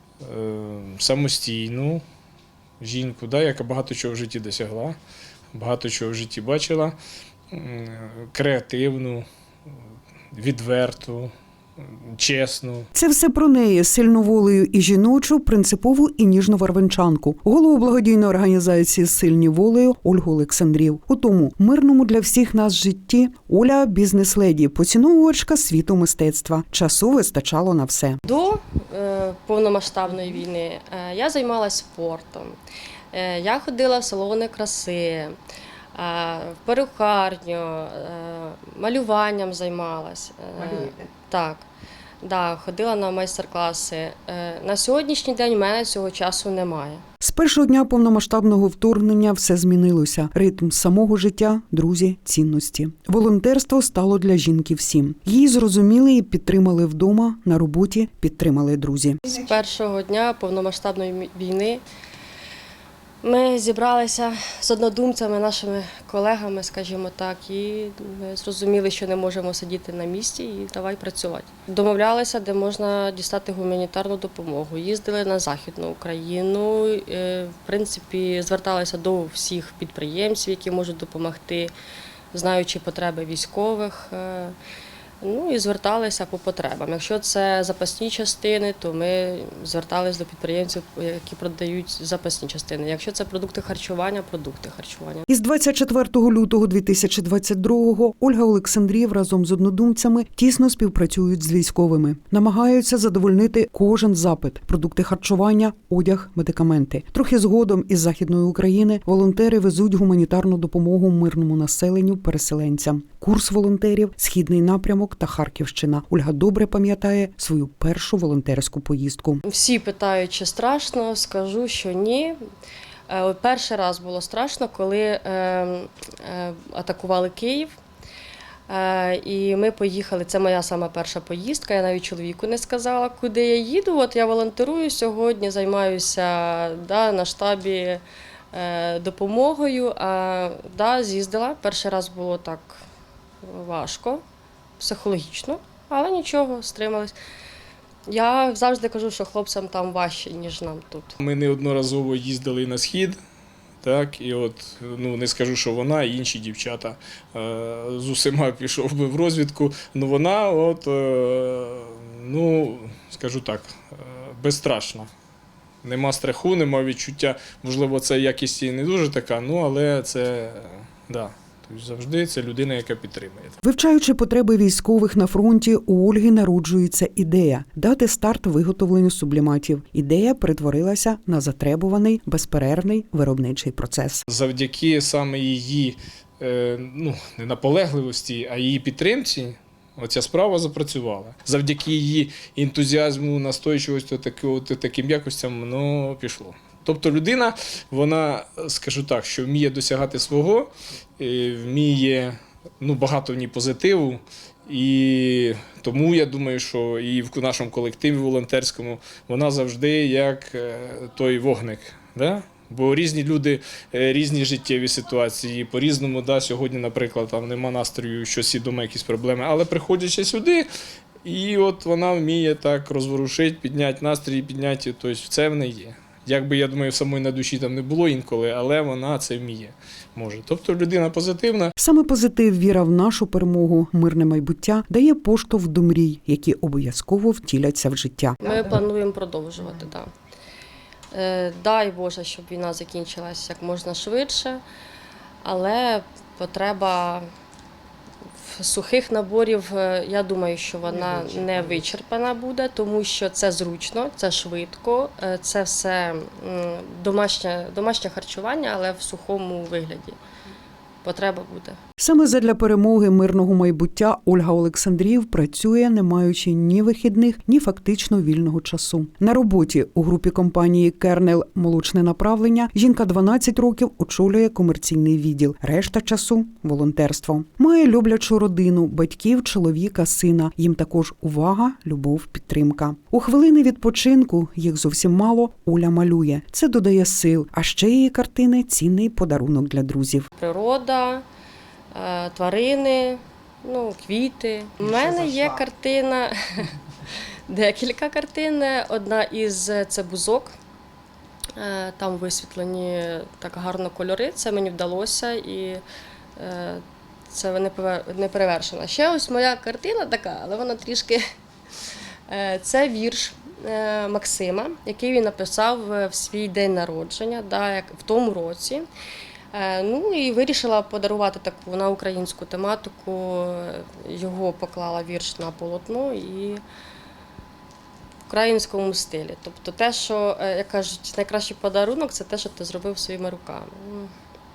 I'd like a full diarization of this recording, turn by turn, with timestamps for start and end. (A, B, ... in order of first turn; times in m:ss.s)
0:00.2-0:02.0 A
0:02.8-0:05.0 A
0:05.5-0:07.0 A
0:07.5-0:09.3 A
0:10.3-0:12.9 A
0:12.9-0:28.2 B
0:28.2-0:32.6 C
0:33.1-0:35.4 C
0:36.0-0:41.6 C
0:42.2-0:47.0 C
0:47.2-0:59.2 B
0:59.3-1:01.8 C
1:03.2-1:21.7 C
1:22.3-1:24.6 C
1:25.2-1:35.2 C
1:35.3-1:59.4 B
1:59.4-2:02.4 C
2:03.1-2:07.7 C
2:08.7-2:22.8 C
2:23.4-2:24.2 C
2:24.8-2:27.2 C
2:28.1-2:31.2 C
2:31.2-2:33.2 A
2:33.8-2:45.1 A
2:45.8-2:53.6 A
2:53.6-3:04.3 B
3:04.3-3:40.7 A
3:41.2-3:51.7 A
3:51.8-3:58.6 B
3:58.4-4:00.1 C
4:01.1-4:04.6 C
4:05.4-4:07.2 C
4:08.4-4:20.2 C
4:21.0-4:21.8 C
4:22.0-4:50.3 B
4:50.4-4:51.2 C
4:51.9-5:00.6 C
5:01.6-5:05.8 C
5:06.4-5:11.2 C
5:12.3-5:18.9 C
5:19.5-5:26.6 C
5:28.3-5:34.1 C